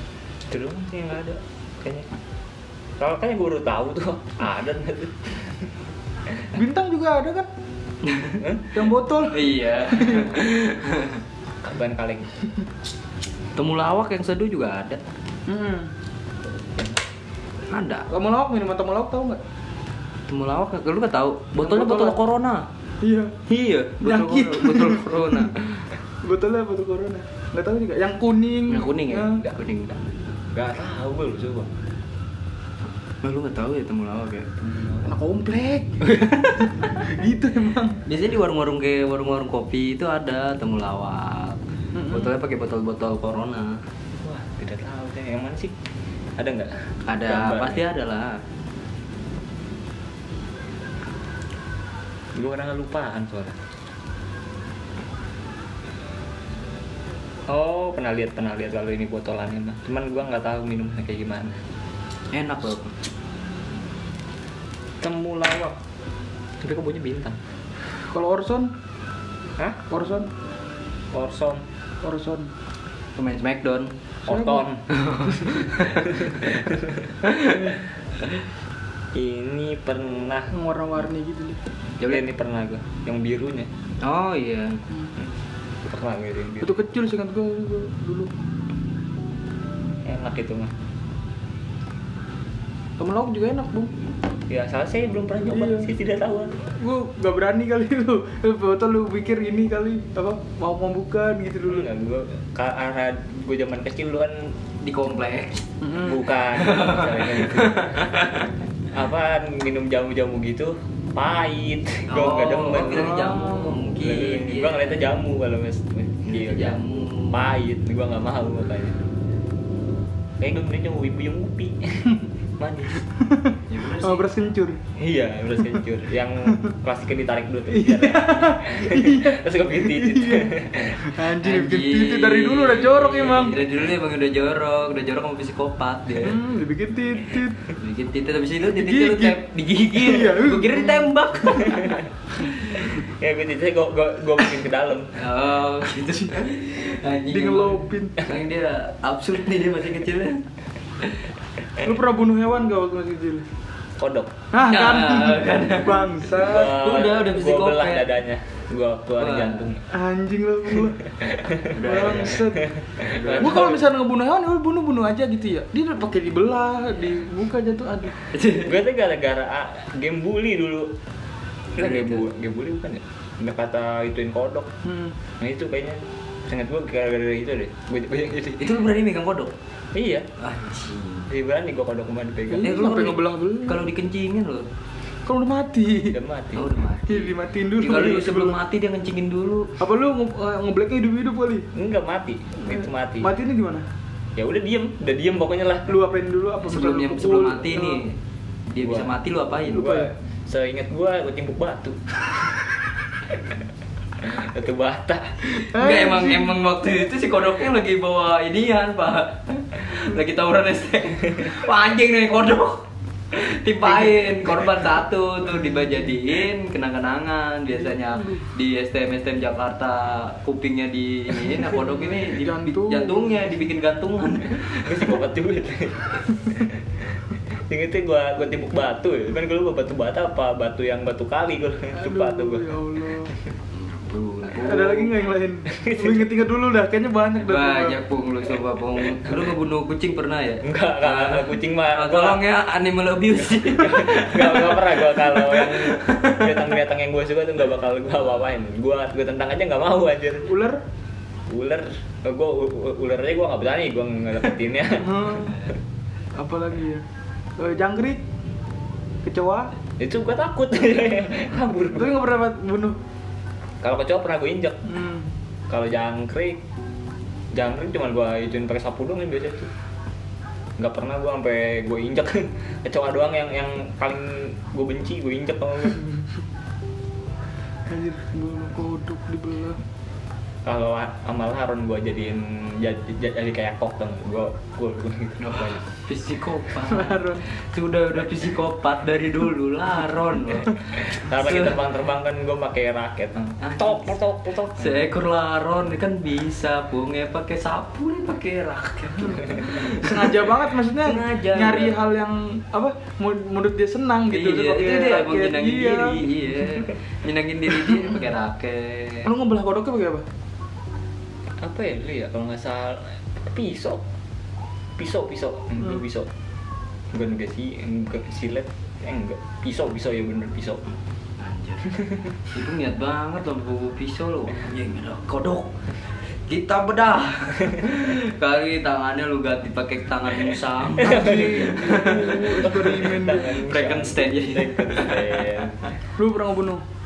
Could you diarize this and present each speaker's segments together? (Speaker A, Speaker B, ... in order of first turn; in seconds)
Speaker A: 0.5-2.1, 3.0-5.5, 8.4-8.7, 11.6-12.3, 30.5-31.7, 44.2-45.8, 46.4-47.8, 52.4-53.6, 57.5-61.6, 65.0-65.8, 66.6-67.4, 71.1-71.7, 74.3-74.8, 76.1-77.0, 79.1-80.5, 82.0-83.7, 85.8-86.8, 90.0-90.8, 94.5-96.6, 101.7-104.5, 106.0-108.3, 108.9-113.3, 114.0-119.0, 120.4-123.0, 125.0-131.0, 141.6-142.1, 142.7-145.1, 154.0-154.3, 156.3-159.8, 161.2-163.8, 168.6-170.9, 171.8-174.7, 175.4-178.8, 179.9-180.3, 181.3-182.8, 186.1-186.7, 191.7-193.3, 194.4-195.9, 198.8-199.1, 200.5-202.5, 204.2-205.4, 224.8-232.8, 235.7-236.2, 240.6-242.4, 243.5-250.5, 251.5-255.6, 260.0-262.2, 263.8-264.8, 265.7-266.6, 267.5-269.7, 270.8-276.0, 280.6-285.8, 291.0-295.1, 311.6-314.0, 315.0-316.3, 317.1-320.9, 331.0-335.9
Speaker B: 6.5-7.5, 8.7-10.4, 15.5-15.9, 18.1-19.4, 21.6-22.2, 23.0-23.4, 24.0-25.6, 26.2-29.4, 35.0-38.0, 68.1-68.7, 69.9-70.3, 72.0-72.5, 74.3-74.7, 75.3-75.5, 80.5-81.6, 86.6-88.3, 93.0-94.1, 95.5-95.9, 96.8-101.8, 105.8-106.2, 113.0-113.8, 123.2-124.8, 127.7-133.6, 136.2-137.6, 138.7-139.4, 139.9-141.1, 147.3-148.2, 151.8-153.4, 154.5-156.8, 159.9-161.1, 161.7-162.7, 163.2-168.2, 174.8-175.1, 182.5-183.9, 185.3-186.2, 187.1-188.6, 189.8-191.7, 193.2-193.9, 195.9-198.0, 199.7-200.1, 205.6-206.6, 222.2-223.4, 231.9-233.3, 234.6-238.0, 250.5-250.8, 255.0-255.6, 256.4-257.1, 257.6-258.2, 259.2-259.7, 261.9-263.0, 264.9-265.3, 277.9-279.8, 286.9-287.4, 299.7-306.2, 309.2-310.2, 331.0-333.6, 336.2-336.8
Speaker C: 8.0-8.4, 9.3-11.2, 13.6-15.0, 17.7-18.1, 20.3-22.7, 23.5-25.6, 28.7-30.1, 33.2-35.0, 36.1-36.4, 38.1-43.8, 47.1-48.4, 62.3-62.9, 73.2-74.0, 74.9-76.6, 77.2-78.4, 84.0-84.8, 104.8-105.6, 106.6-108.5, 112.1-115.0, 116.2-117.4, 123.7-124.3, 131.4-136.4, 137.8-142.0, 145.1-150.4, 151.0-151.3, 154.6-158.1, 159.2-159.7, 161.7-162.3, 163.1-163.8, 168.3-168.7, 171.8-172.2, 178.6-179.5, 180.4-181.3, 182.6-184.7, 186.5-189.8, 196.6-198.2, 198.7-200.1, 205.5-225.2, 233.8-235.2, 237.4-246.6, 285.4-291.8, 293.6-294.1, 294.6-302.0, 304.3-309.3, 321.4-325.7, 326.4-335.6